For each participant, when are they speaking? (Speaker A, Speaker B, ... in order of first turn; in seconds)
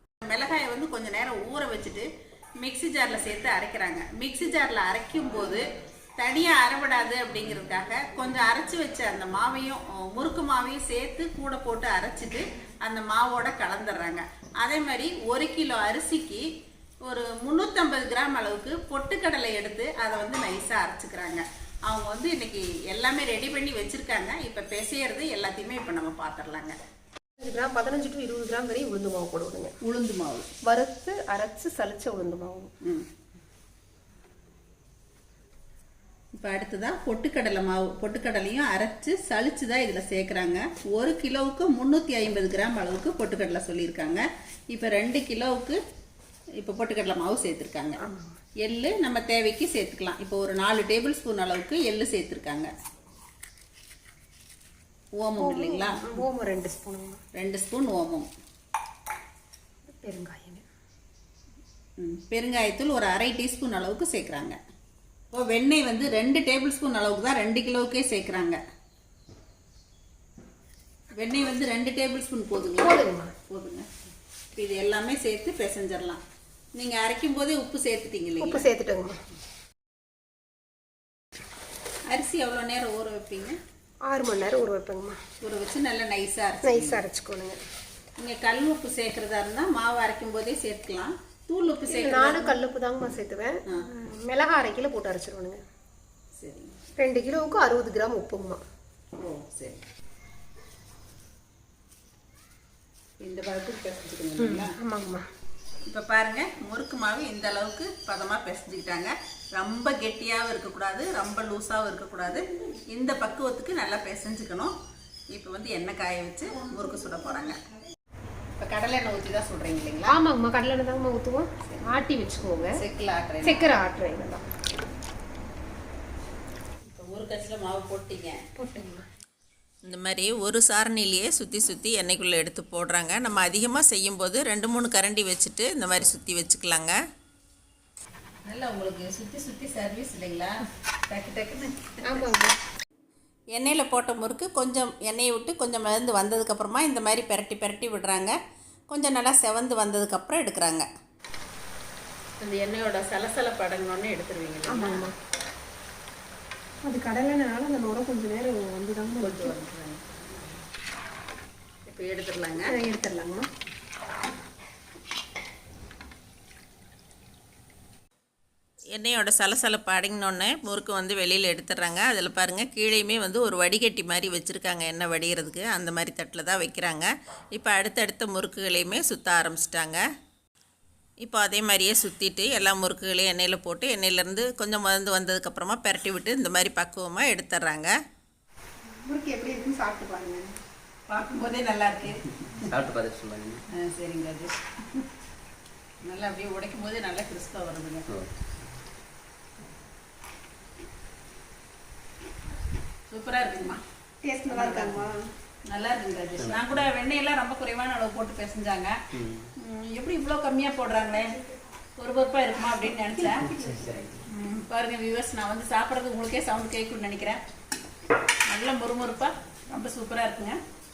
Speaker A: 0.2-2.0, 2.6-5.6, 6.2-16.4, 17.0-26.8, 29.8-30.5, 36.3-45.8, 46.6-48.0, 48.6-52.7, 55.2-56.2, 57.3-58.3, 62.0-64.6, 65.3-68.6, 71.2-73.8, 74.5-76.2, 76.8-78.6, 82.1-83.6, 85.4-87.0, 88.2-92.5, 96.4-96.8, 99.2-99.8, 103.2-104.7, 105.8-114.7, 115.3-117.5, 118.6-120.2, 122.7-123.7, 126.9-128.4, 129.8-136.9, 138.4-140.6, 141.1-142.2, 143.5-148.3, 148.9-150.9, 152.4-155.1, 159.2-160.6, 161.9-162.7, 168.9-180.0, 181.2-187.9, 191.1-192.7, 193.7-195.0, 196.0-198.1, 203.1-203.8, 204.5-205.1, 205.7-208.9, 209.6-211.3, 212.0-213.5, 214.3-217.4, 218.5-220.6
Speaker B: 27.4-29.7, 30.6-32.7, 48.0-48.4, 55.4-57.2, 59.9-60.6, 72.8-73.3, 78.4-79.2, 84.0-85.2, 86.6-87.6, 91.9-95.6, 97.0-98.6, 104.4-105.2, 120.1-122.8, 123.4-124.4, 128.6-129.0, 142.0-142.5, 154.7-155.1, 156.8-159.5, 162.7-163.5, 189.0-190.5, 204.2-205.2
Speaker C: 192.4-193.6, 198.1-198.7, 206.4-206.8, 209.1-209.5, 213.2-214.2